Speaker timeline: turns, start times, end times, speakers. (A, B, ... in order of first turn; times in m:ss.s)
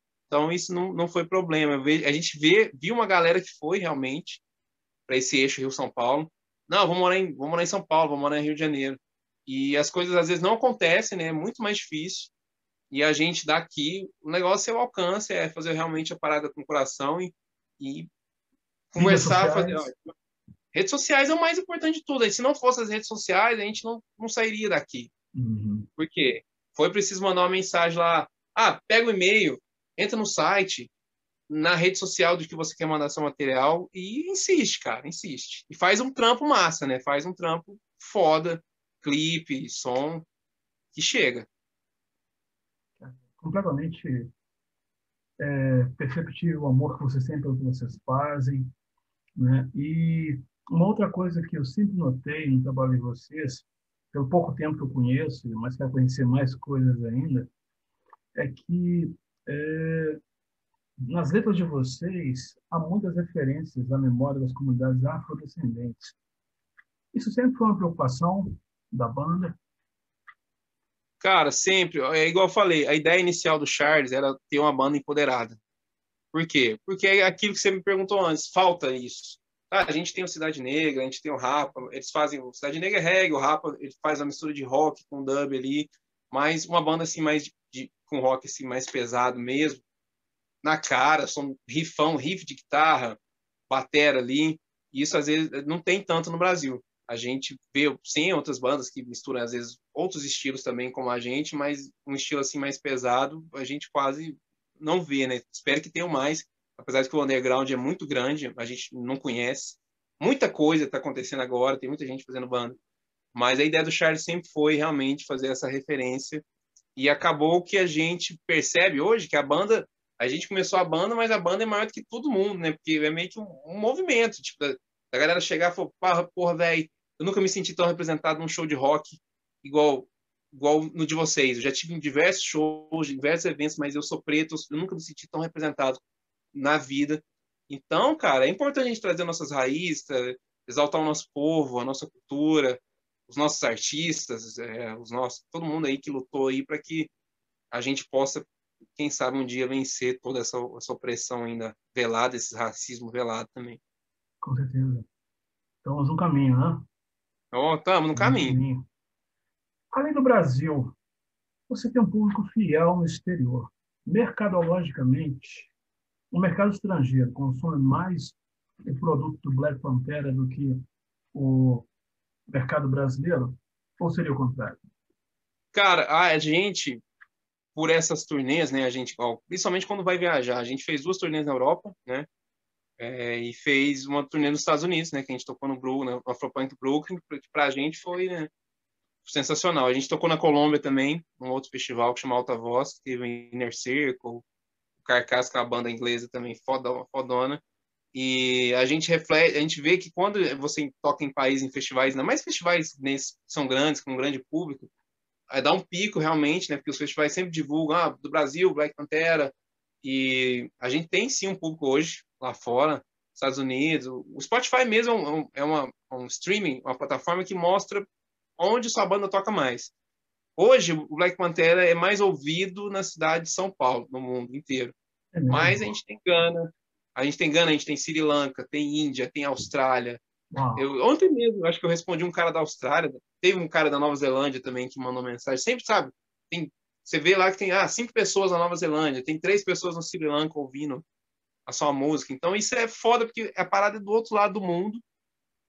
0:00.3-0:04.4 A
0:05.1-0:12.3 A
0:12.9-0:18.1 A
0:18.9-0:20.1 A
0:19.0-0:19.9 B
0:20.7-0:25.1 A
0:25.3-0:25.9 B
0:26.0-0:30.9 A
0:31.5-0:40.2 A
0:40.9-0:41.4 A
0:43.0-0:44.3 B
0:45.4-0:48.7 B
0:49.4-0:57.5 B
0:58.3-1:00.2 B
1:01.0-1:06.1 B
1:07.1-1:09.6 B
1:11.2-1:15.6 A
1:16.3-1:29.8 A
1:30.6-1:33.2 A
1:33.7-1:52.8 A
1:53.3-1:56.4 A
1:57.0-2:16.0 A
2:16.5-2:27.1 A
2:27.7-2:28.4 A
2:29.0-2:33.8 A
2:34.4-2:35.1 B
2:35.8-2:36.8 B
2:37.5-2:38.6 A
2:38.1-2:38.8 B
2:39.9-2:40.9 B
2:41.7-2:45.7 B
2:46.3-2:50.8 B
2:51.3-2:51.9 B
2:52.5-2:54.8 B
2:55.7-2:57.0 A
2:57.7-3:02.3 A
3:03.0-3:08.5 A
3:09.2-3:14.4 A
3:15.0-3:17.6 A
3:18.1-3:24.9 A
3:25.5-3:38.0 A
3:38.6-3:39.9 A
3:40.6-3:44.9 A
3:45.3-3:45.9 B
3:45.5-3:50.2 A
3:50.5-3:50.8 B
3:50.8-4:01.0 A
4:01.6-4:05.0 A